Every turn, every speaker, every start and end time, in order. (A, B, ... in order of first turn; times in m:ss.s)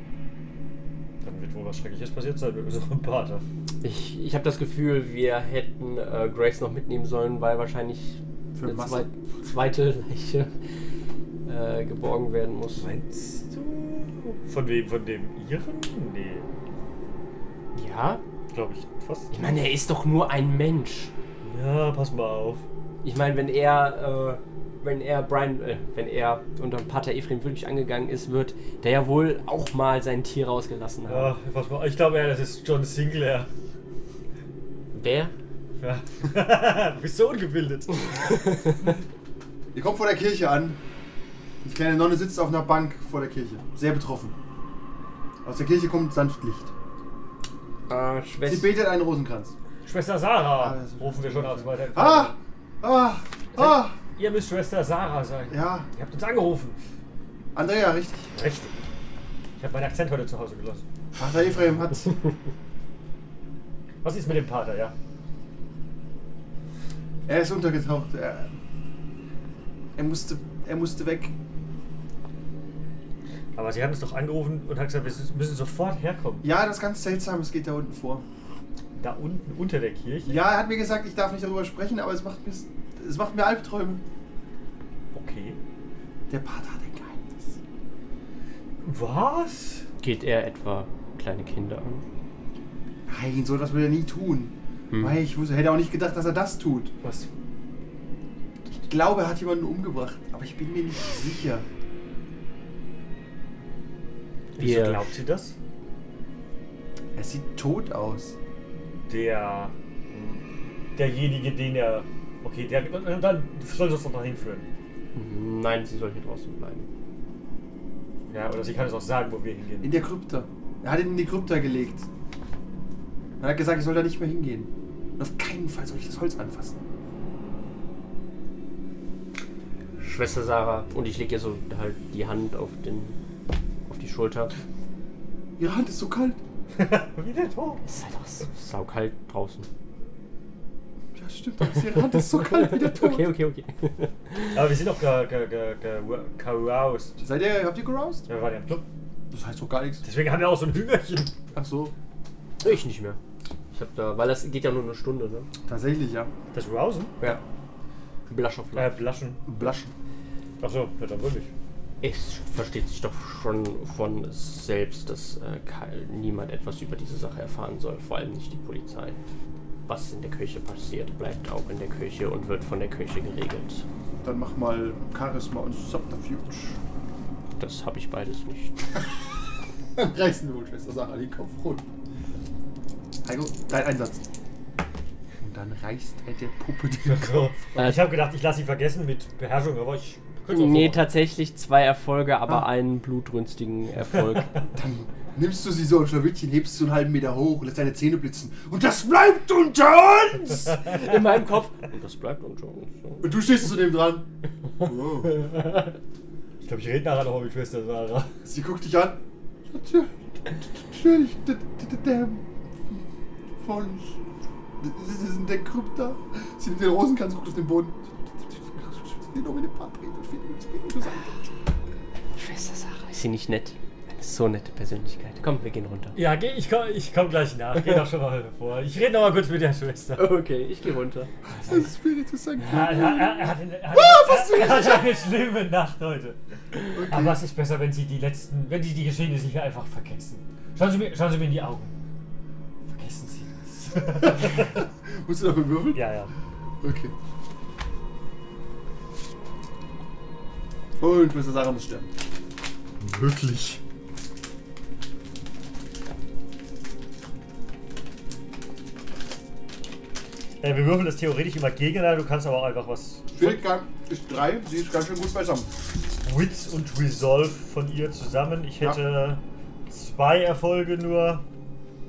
0:01.2-0:03.4 A
0:03.8-0:10.5 B
0:08.5-0:09.1 C
0:11.4-0:12.9 B
0:12.8-0:16.5 A
0:17.7-0:18.2 B
0:18.5-0:19.3 A
0:19.3-0:21.1 B
0:21.4-0:22.6 A
0:23.0-0:31.3 B
0:31.1-0:33.5 A
0:34.9-0:35.3 B
0:35.8-0:38.7 A
0:39.7-0:40.8 C
0:41.6-0:44.3 C
0:45.4-0:46.7 C
0:47.9-0:48.7 B
0:48.4-0:49.5 C
0:49.8-0:52.3 A
0:50.6-0:54.0 C
0:53.6-0:56.8 A
0:55.5-0:55.9 C
0:57.5-0:58.3 C
0:58.3-0:58.8 A
0:59.6-1:00.8 A
1:01.2-1:02.2 C
1:04.0-1:04.9 A
1:07.2-1:08.5 C
1:10.0-1:11.3 C
1:13.6-1:16.4 A
1:16.4-1:18.2 C
1:19.0-1:20.4 A
1:20.2-1:24.0 C
1:25.1-1:25.6 A
1:26.3-1:27.6 C
1:28.8-1:29.8 A
1:30.0-1:32.0 B
1:33.1-1:36.9 C
1:34.9-1:35.2 B
1:37.0-1:37.3 A
1:38.8-1:41.6 C
1:44.6-1:45.5 A
1:44.6-1:45.1 B
1:47.2-1:48.4 C
1:49.1-1:50.4 A
1:51.0-1:54.6 A
1:55.1-1:56.9 B
1:58.3-1:59.9 A
1:59.8-2:02.0 C
2:03.4-2:06.8 C
2:10.0-2:13.2 B
2:13.8-2:14.5 B
2:15.6-2:16.4 C
2:16.7-2:17.8 A
2:17.8-2:19.7 B
2:21.1-2:23.3 C
2:21.7-2:24.6 B
2:24.5-2:27.2 A
2:27.2-2:28.3 C
2:28.3-2:28.8 A
2:29.3-2:30.0 C
2:30.0-2:31.3 A
2:31.5-2:31.9 C
2:32.6-2:33.2 B
2:33.7-2:35.5 B
2:35.6-2:36.3 C
2:36.5-2:37.1 A
2:38.3-2:39.0 B
2:38.8-2:39.4 A
2:39.4-2:39.9 C
2:40.6-2:41.5 A
2:42.0-2:49.2 B
2:49.9-2:53.8 B
2:54.2-2:56.8 C
2:57.6-2:58.8 B
3:00.0-3:01.8 C
3:03.2-3:04.2 C
3:05.4-3:07.5 C
3:07.0-3:11.1 A
3:07.8-3:08.1 B
3:10.5-3:14.6 B
3:14.7-3:20.8 C
3:20.8-3:23.4 B
3:23.2-3:24.2 C
3:24.8-3:25.4 C
3:26.6-3:28.3 A
3:28.4-3:33.0 C
3:33.6-3:34.2 C
3:34.8-3:41.4 C
3:42.4-3:46.2 B
3:46.1-3:50.3 A
3:50.1-3:51.3 B
3:51.4-3:55.1 C
3:52.6-4:01.9 A
3:56.9-3:57.4 C
4:02.9-4:04.8 A
4:04.2-4:06.0 C
4:05.9-4:06.3 A
4:06.8-4:07.1 C
4:11.0-4:12.1 C
4:13.0-4:13.8 A
4:20.6-4:23.6 A
4:23.3-4:25.7 C
4:26.2-4:31.4 A